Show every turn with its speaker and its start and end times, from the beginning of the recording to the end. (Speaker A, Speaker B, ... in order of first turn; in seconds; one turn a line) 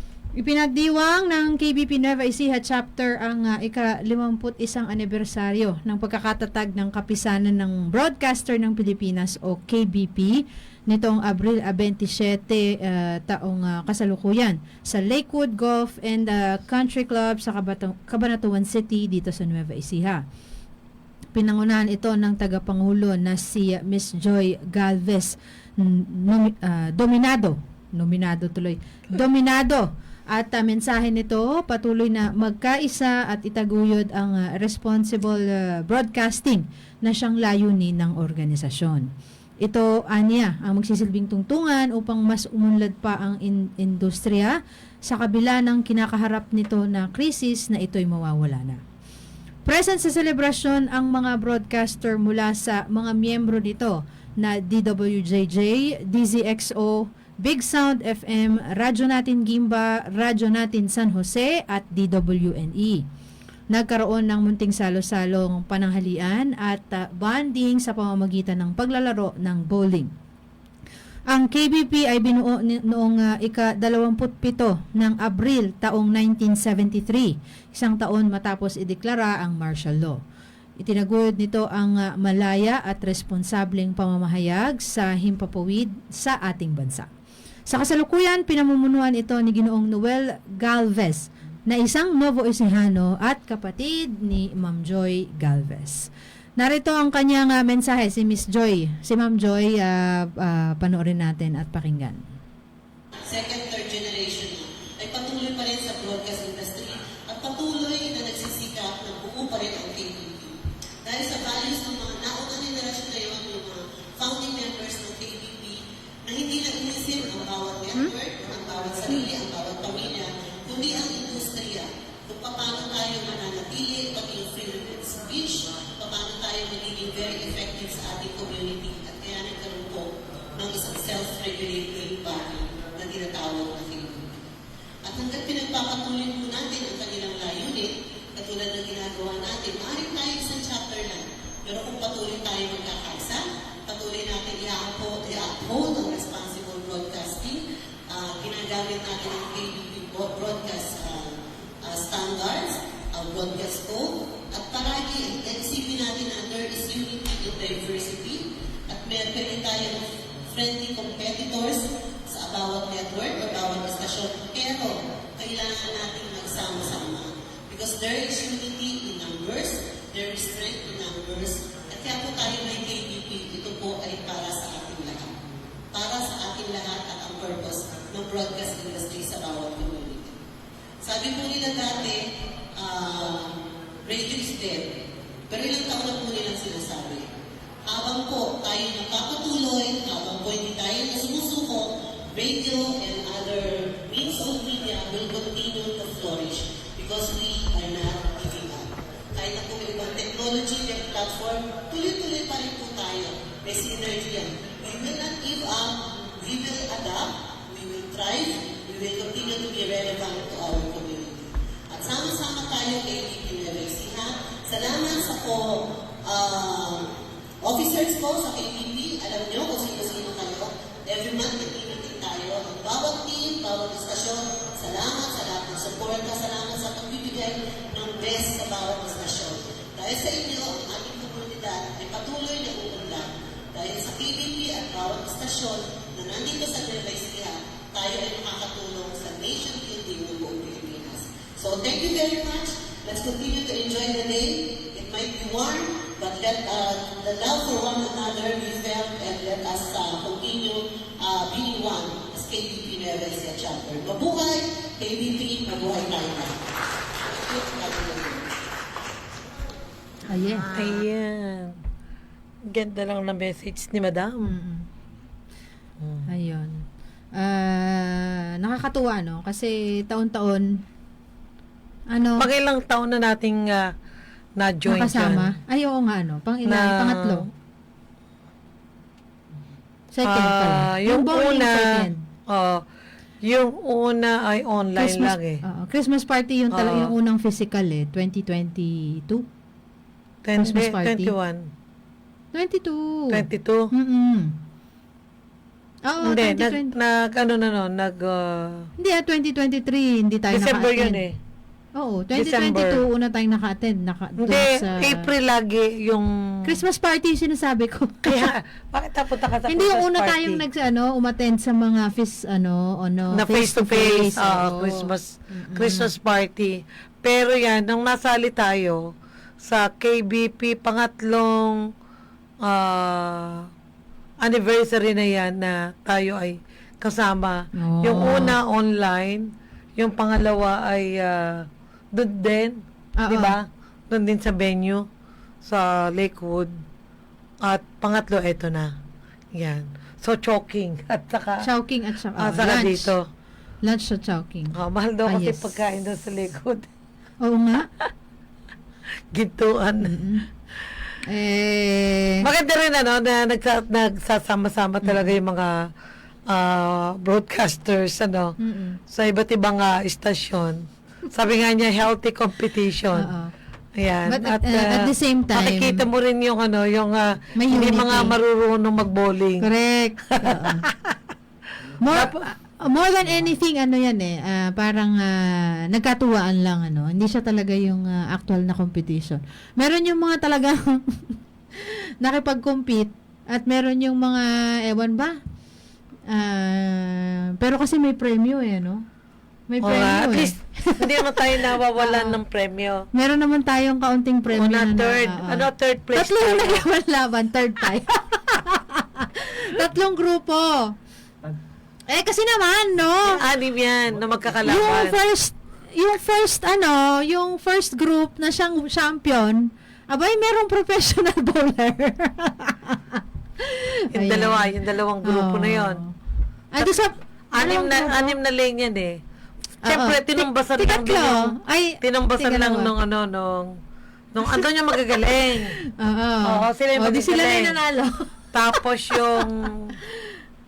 Speaker A: 0.3-20.2
Speaker A: 21.3-39.1
Speaker A: 39.6-48.8
Speaker A: 49.6-63.0
Speaker A: 63.7-70.1
Speaker A: 71.3-80.2
Speaker A: 80.8-87.1
Speaker A: 87.7-102.2
Speaker B: 103.2-134.5
Speaker B: 135.0-180.4
Speaker B: 181.0-187.3
Speaker B: 187.8-256.7
Speaker B: 257.2-258.5
Speaker A: 260.3-260.8
Speaker C: 260.7-261.7
Speaker C: 262.7-264.4
Speaker A: 264.4-264.9
Speaker C: 266.0-266.3
Speaker A: 266.3-270.8
Speaker A: 272.1-272.5
Speaker C: 272.4-273.9
Speaker C: 274.6-275.5
Speaker A: 274.9-277.5
Speaker C: 276.6-277.4
Speaker A: 280.1-282.2
Speaker C: 280.2-282.8
Speaker C: 283.4-285.6
Speaker A: 284.9-289.4
Speaker C: 286.7-287.1
Speaker C: 290.4-291.7
Speaker A: 290.6-291.3
Speaker A: 292.5-294.6
Speaker C: 293.3-293.9
Speaker A: 296.0-296.9
Speaker C: 296.2-298.9
Speaker A: 299.0-301.2
Speaker C: 300.5-301.4
Speaker A: 301.9-305.3
Speaker C: 302.3-303.0
Speaker C: 304.4-306.7
Speaker A: 306.6-308.5
Speaker C: 308.2-310.6
Speaker A: 309.7-316.1
Speaker C: 313.3-319.0
Speaker C: 319.6-321.8
Speaker C: 322.6-323.7
Speaker C: 324.4-335.1
Speaker A: 327.8-328.6
Speaker A: 333.2-333.6
Speaker C: 335.6-336.8
Speaker C: 337.6-338.9
Speaker C: 339.5-341.6
Speaker A: 341.6-343.1
Speaker C: 342.4-343.2
Speaker A: 343.8-344.7
Speaker C: 344.7-346.9
Speaker A: 345.2-345.7
Speaker A: 347.4-347.9
Speaker C: 349.3-350.2
Speaker A: 350.0-350.4
Speaker A: 351.2-352.4
Speaker C: 352.4-355.9
Speaker A: 355.0-355.3
Speaker C: 356.5-358.6
Speaker A: 358.6-359.0
Speaker C: 359.1-363.3
Speaker A: 363.1-363.5
Speaker C: 364.0-369.7
Speaker A: 364.3-366.0
Speaker A: 367.6-368.3
Speaker A: 369.6-370.8
Speaker C: 370.3-371.1
Speaker A: 372.0-385.4
Speaker C: 372.1-372.4
Speaker A: 386.3-389.0
Speaker A: 389.7-392.4
Speaker C: 389.8-393.1
Speaker A: 393.1-400.9
Speaker C: 394.5-396.8
Speaker A: 402.1-403.4
Speaker C: 403.3-405.2
Speaker A: 404.6-414.7
Speaker C: 414.1-416.0
Speaker A: 415.2-416.1
Speaker A: 416.7-418.4
Speaker C: 417.5-419.2
Speaker A: 419.8-422.9
Speaker C: 419.8-423.7
Speaker C: 424.3-425.7
Speaker A: 425.5-428.3
Speaker C: 426.4-427.7
Speaker C: 428.5-429.9
Speaker A: 429.1-429.7